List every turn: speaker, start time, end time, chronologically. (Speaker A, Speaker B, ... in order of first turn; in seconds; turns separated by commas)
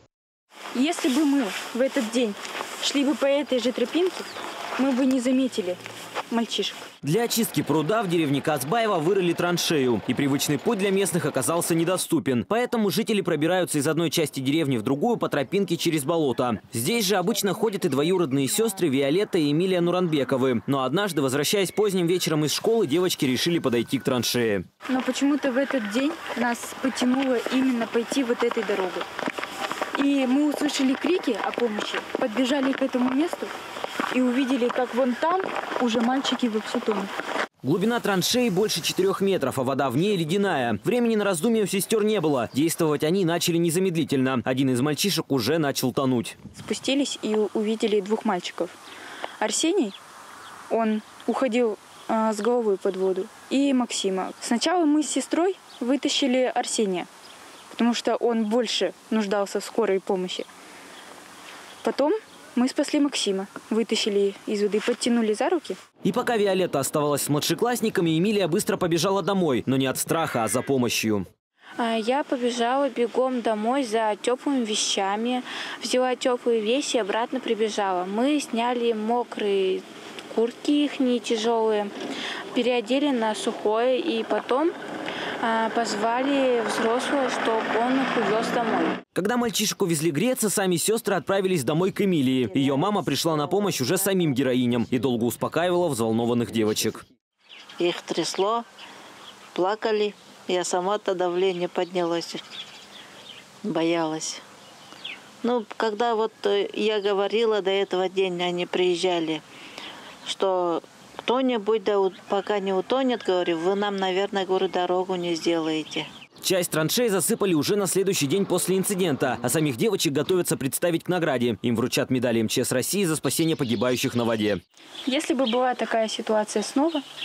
Speaker A: 0.7-6.8, Speaker B: 7.0-24.6, Speaker A: 24.9-29.1, Speaker A: 29.9-33.5, Speaker A: 34.1-37.1, Speaker B: 37.6-46.3, Speaker A: 46.5-48.8, Speaker A: 49.4-50.0, Speaker A: 50.7-57.1, Speaker A: 57.7-60.5, Speaker A: 61.8-65.8, Speaker B: 66.0-71.3, Speaker C: 71.8-81.9, Speaker C: 82.5-84.7, Speaker C: 85.4-89.0, Speaker B: 89.1-97.0, Speaker D: 97.8-98.7, Speaker D: 99.5-102.4, Speaker D: 103.6-104.4, Speaker D: 105.4-109.4, Speaker D: 110.2-116.1, Speaker B: 116.4-124.6, Speaker A: 125.1-127.0